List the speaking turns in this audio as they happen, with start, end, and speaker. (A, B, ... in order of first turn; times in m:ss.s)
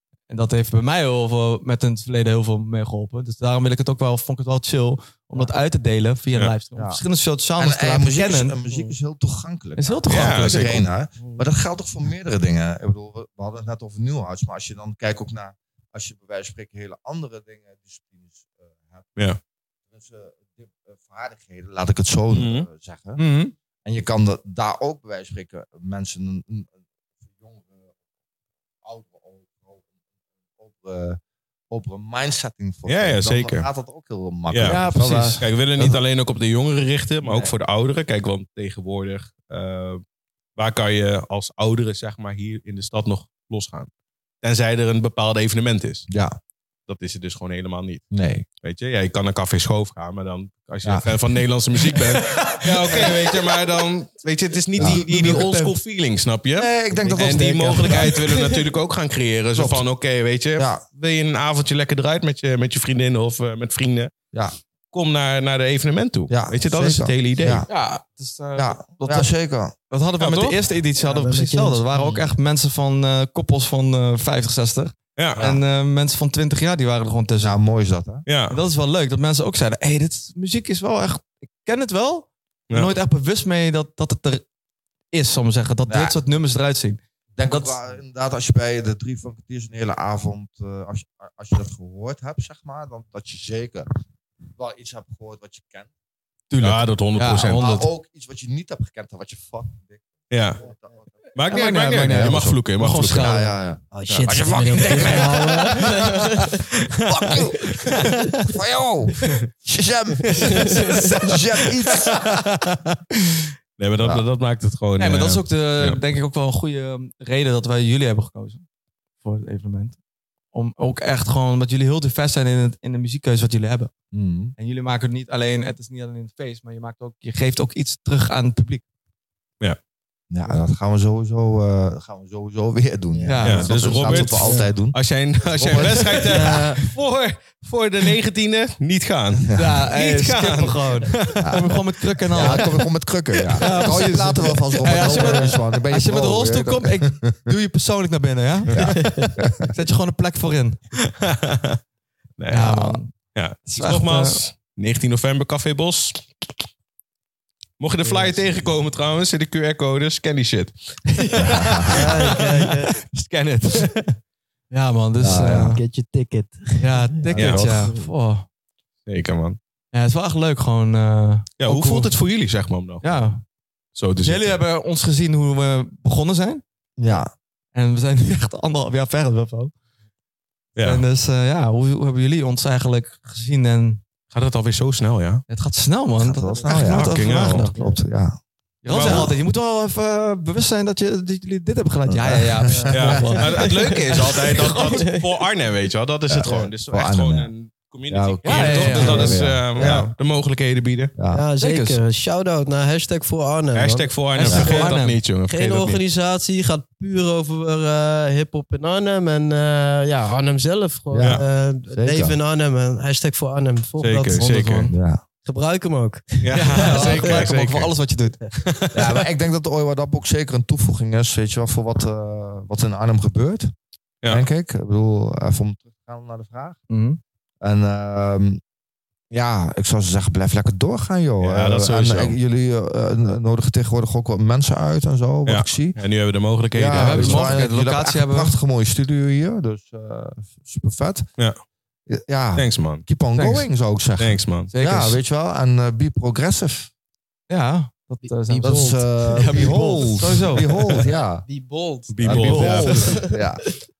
0:00.3-0:08.6 A
0:06.8-0:07.0 B
0:07.6-0:19.1 B
0:08.7-0:08.9 C
0:09.8-0:10.8 A
0:10.1-0:10.7 D
0:11.2-0:11.4 C
0:19.9-0:23.2 B
0:22.3-0:22.7 D
0:23.2-0:23.5 A
0:23.8-0:26.7 B
0:27.4-0:27.9 B
0:28.8-0:29.8 B
0:30.6-0:31.2 B
0:31.7-0:36.0 B
0:32.8-0:33.6 D
0:34.5-0:40.0 D
0:34.6-0:35.4 A
0:37.2-0:37.5 B
0:40.6-0:43.9 D
0:44.4-0:46.1 D
0:46.1-0:46.3 B
0:46.9-0:48.0 D
0:48.1-0:48.4 B
0:48.6-1:04.1 D
0:50.8-0:51.1 B
0:52.6-0:53.0 A
0:54.8-0:55.6 B
0:54.8-0:55.7 A
0:56.6-0:58.1 B
0:57.1-0:58.6 C
0:59.5-0:59.8 B
1:00.6-1:00.8 B
1:04.9-1:07.6 D
1:06.3-1:07.7 B
1:07.7-1:09.3 A
1:08.6-1:09.7 B
1:09.9-1:17.6 A
1:10.2-1:10.6 D
1:11.0-1:11.8 C
1:11.9-1:12.2 B
1:15.2-1:15.4 D
1:15.4-1:15.6 B
1:17.4-1:18.2 B
1:18.2-1:18.6 D
1:18.5-1:24.4 A
1:22.7-1:22.9 D
1:25.1-1:27.7 A
1:25.9-1:26.2 B
1:27.4-1:33.9 B
1:34.6-1:35.9 B
1:36.5-1:37.9 A
1:36.6-1:37.7 D
1:37.5-1:41.1 B
1:40.3-1:40.6 D
1:41.3-1:43.3 D
1:41.5-1:43.5 A
1:42.0-1:42.6 B
1:43.1-1:46.2 B
1:43.9-1:46.6 C
1:44.9-1:45.2 D
1:46.9-1:48.4 D
1:47.0-1:52.3 B
1:50.4-1:51.1 C
1:50.6-1:51.2 A
1:52.0-1:53.0 D
1:53.8-1:56.0 D
1:54.0-1:54.2 B
1:55.0-1:58.6 A
1:59.2-2:00.0 A
2:00.5-2:03.9 A
2:04.1-2:04.5 B
2:04.6-2:08.8 A
2:10.3-2:16.5 B
2:13.1-2:13.4 C
2:13.2-2:14.4 A
2:13.4-2:21.6 D
2:14.4-2:14.7 C
2:16.3-2:16.8 C
2:19.5-2:19.8 B
2:19.5-2:22.7 A
2:21.4-2:21.7 B
2:22.3-2:27.5 B
2:23.5-2:30.8 A
2:28.7-2:29.7 B
2:28.8-2:29.3 C
2:31.0-2:31.8 D
2:32.4-2:36.4 D
2:32.5-2:33.1 A
2:33.7-2:34.4 A
2:37.8-2:42.7 D
2:38.0-2:38.4 C
2:41.2-2:42.0 A
2:41.4-2:42.0 B
2:41.9-2:42.9 C
2:43.1-2:43.9 A
2:43.6-2:44.0 D
2:44.7-2:45.8 A
2:45.2-2:45.8 B
2:45.3-2:47.3 C
2:46.8-2:48.4 A
2:47.3-2:47.9 B
2:47.4-2:47.7 D
2:49.0-2:49.6 D
2:49.9-2:52.1 A
2:51.6-2:53.0 D
2:53.0-2:53.4 A
2:53.9-2:54.6 D
2:54.2-2:56.6 A
2:57.0-2:57.3 B
2:57.7-2:59.7 A
3:00.8-3:01.0 D
3:00.8-3:04.0 A
3:04.3-3:05.4 D
3:05.5-3:07.8 A
3:06.2-3:08.4 B
3:06.5-3:06.8 C
3:06.8-3:07.7 D
3:07.5-3:08.0 C
3:08.8-3:14.4 A
3:08.8-3:09.3 D
3:12.1-3:13.4 B
3:12.6-3:15.3 C
3:12.9-3:21.1 D
3:16.3-3:17.5 B
3:18.1-3:20.1 B
3:18.4-3:19.4 A
3:21.2-3:21.4 B
3:21.3-3:24.9 C
3:21.6-3:22.0 A
3:23.7-3:26.0 D
3:24.3-3:25.2 A
3:25.5-3:34.4 C
3:31.1-3:32.4 B
3:31.2-3:31.4 D
3:34.0-3:34.9 D
3:34.3-3:35.0 A
3:34.9-3:35.2 B
3:35.4-3:37.5 C
3:36.4-3:37.9 D
3:36.5-3:38.4 A
3:38.6-3:39.2 D
3:38.9-3:43.7 B
3:44.2-3:46.8 B
3:46.9-3:47.2 A
3:47.6-3:48.6 B
3:49.3-3:56.0 B
3:51.4-3:52.4 D
3:55.4-3:57.6 D
3:56.7-4:01.3 B
3:56.9-3:58.5 A
4:02.1-4:06.9 B
4:02.6-4:03.0 D
4:03.3-4:03.7 A
4:04.2-4:04.7 D
4:04.7-4:05.2 A
4:07.5-4:10.7 A
4:08.2-4:10.1 C
4:08.6-4:11.4 B
4:10.9-4:13.4 C
4:12.1-4:13.2 D
4:12.2-4:13.6 B
4:12.2-4:13.1 A